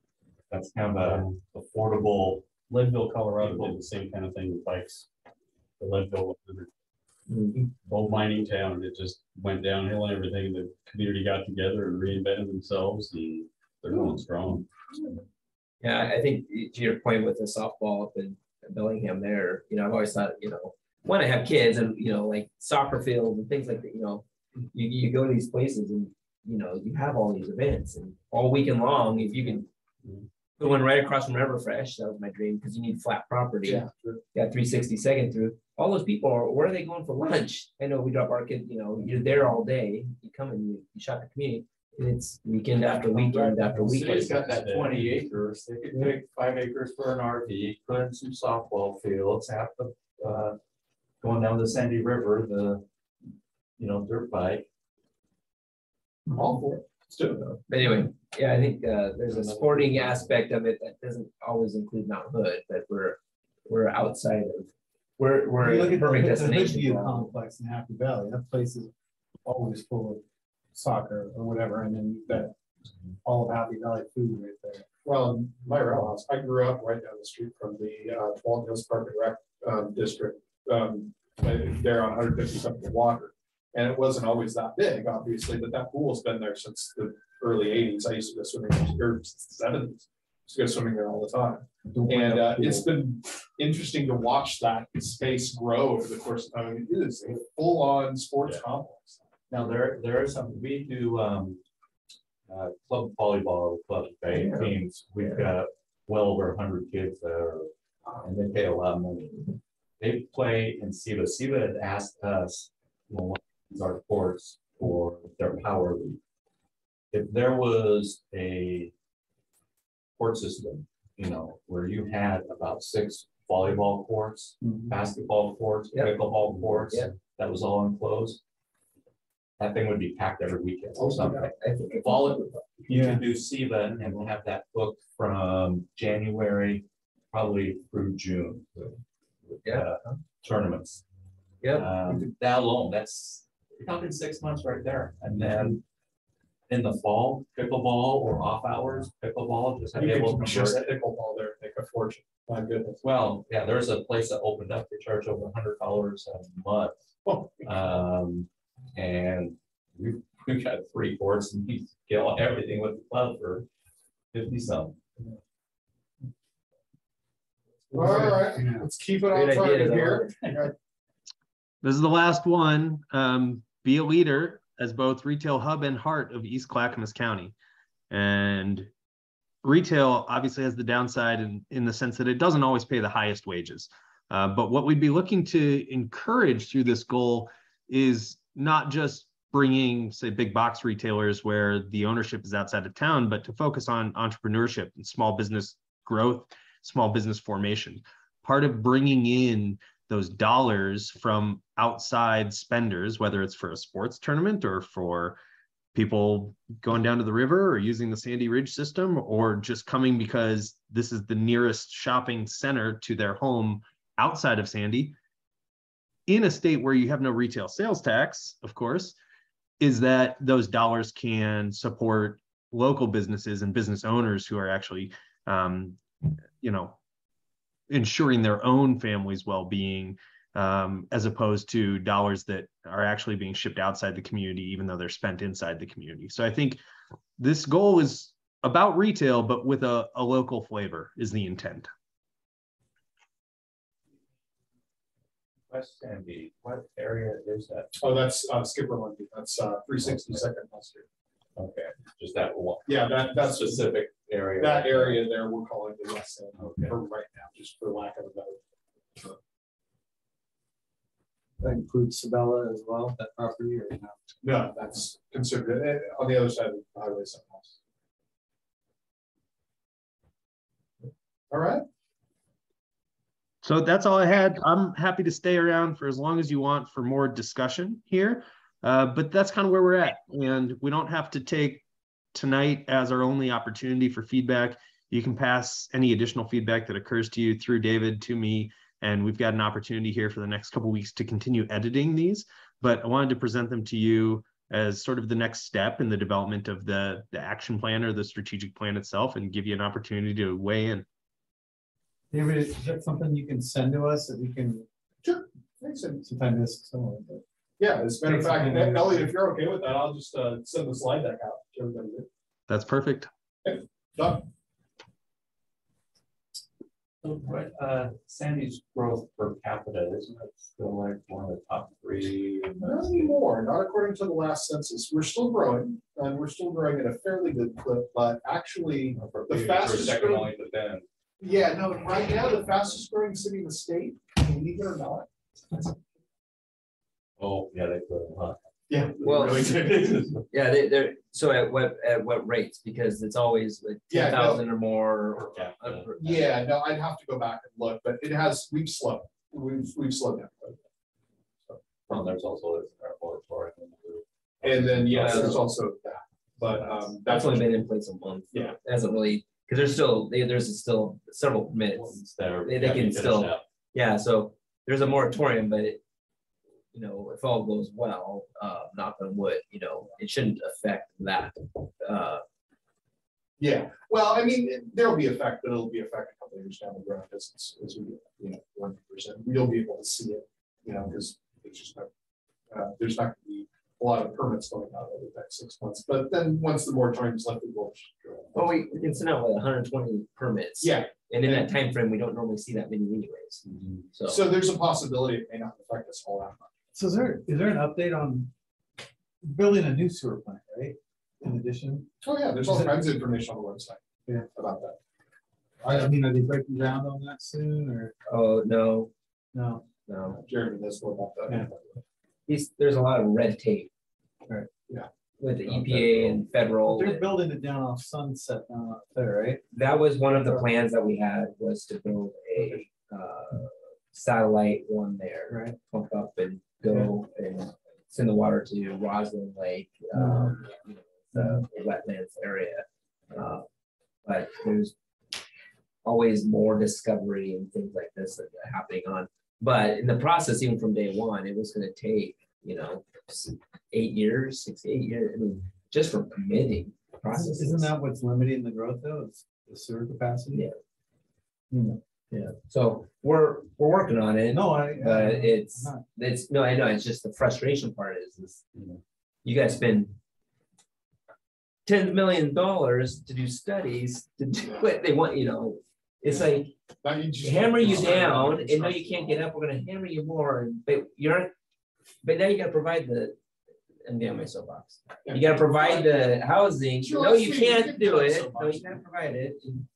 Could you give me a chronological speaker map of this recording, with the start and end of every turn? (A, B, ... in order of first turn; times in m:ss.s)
0:00.5-0:02.5 A
0:01.0-0:01.4 B
0:02.6-0:05.1 B
0:03.4-0:03.8 A
0:05.8-0:06.7 B
0:07.3-0:07.6 C
0:07.8-0:14.7 B
0:15.8-0:29.6 C
0:30.6-0:33.8 C
0:33.6-0:34.2 D
0:34.3-0:44.3 C
0:43.1-0:45.2 B
0:43.8-0:50.6 A
0:51.2-0:52.8 A
0:53.8-0:54.6 A
0:56.3-0:57.5 D
0:57.5-1:07.3 C
1:05.6-1:08.9 E
1:09.4-1:10.2 E
1:10.7-1:12.6 E
1:13.2-1:14.8 E
1:15.0-1:39.8 D
1:31.9-1:32.9 E
1:39.5-1:41.6 A
1:42.5-1:49.4 A
1:44.3-1:44.7 C
1:50.0-1:56.2 A
1:57.1-1:58.9 A
2:00.2-2:08.4 A
2:04.6-2:04.9 E
2:05.9-2:06.2 C
2:09.6-2:21.0 A
2:11.0-2:12.6 C
2:12.9-2:13.2 E
2:19.6-2:20.2 C
2:21.6-2:21.9 C
2:21.7-2:25.8 A
2:26.7-2:30.9 A
2:29.9-2:33.0 D
2:33.0-2:37.0 A
2:37.2-2:37.6 D
2:37.6-2:43.6 A
2:44.3-2:45.0 A
2:47.9-2:48.4 C
2:47.9-2:50.7 D
2:47.9-2:48.6 E
2:49.3-2:50.4 C
2:51.8-2:57.5 F
2:58.1-2:58.9 F
2:59.6-3:25.4 F
3:25.9-3:35.2 F
3:36.3-3:39.2 F
3:39.8-3:47.0 F
3:47.9-3:56.8 F
3:57.4-4:01.9 F
4:05.7-4:08.0 A
4:08.0-4:11.0 D
4:10.0-4:10.4 A
4:11.6-4:15.2 A
4:12.8-4:18.6 D
4:16.6-4:17.0 A
4:21.6-4:24.2 E
4:24.4-4:27.8 D
4:31.5-4:31.8 D
4:33.6-4:41.8 F
4:42.3-5:01.0 F
5:02.3-5:04.9 E
5:05.2-5:06.2 D
5:06.2-5:07.4 E
5:07.8-5:12.3 D
5:08.2-5:09.3 E
5:12.7-5:13.3 F
5:13.6-5:14.5 D
5:17.2-5:23.3 A
5:22.8-5:30.5 D
5:29.1-5:31.0 A
5:31.4-5:35.8 D
5:37.4-5:40.4 A
5:38.9-5:40.4 D
5:39.2-5:39.6 C
5:40.5-5:46.5 C
5:44.1-5:44.6 D
5:45.4-5:46.2 A
5:46.2-5:50.8 D
5:52.0-5:55.6 A
5:54.6-5:57.6 D
5:55.2-5:55.6 C
5:56.8-6:06.0 C
6:01.9-6:03.6 A
6:06.9-6:12.4 C
6:13.6-6:22.1 D
6:22.7-6:28.7 D
6:28.5-6:33.6 C
6:30.8-6:31.7 D
6:33.6-6:34.0 A
6:34.1-6:34.4 C
6:34.3-6:36.7 D
6:36.9-6:38.5 E
6:39.4-6:42.1 E
6:42.2-6:44.0 D
6:42.7-6:43.0 E
6:44.5-6:45.0 D
6:45.8-6:48.1 E
6:48.3-6:49.1 C
6:49.5-6:49.8 E
6:50.0-6:50.4 C
6:50.4-6:52.0 D
6:52.5-6:53.9 C
6:55.4-6:57.2 C
6:55.8-6:56.1 D
6:56.8-6:59.6 E
6:59.7-7:13.6 C
7:05.5-7:05.8 E
7:10.1-7:10.6 E
7:11.3-7:11.6 E
7:14.2-7:14.9 C
7:16.0-7:27.9 C
7:27.3-7:30.7 E
7:31.7-7:32.0 E
7:32.3-7:38.6 C
7:34.5-7:36.0 E
7:39.4-7:40.2 C
7:41.8-7:46.7 C
7:47.0-7:49.4 D
7:47.4-7:51.5 C
7:47.8-7:48.5 A
7:52.2-7:53.3 C
7:54.0-7:59.8 C
7:55.2-7:56.3 D
7:57.0-7:58.6 D
7:58.3-7:58.9 A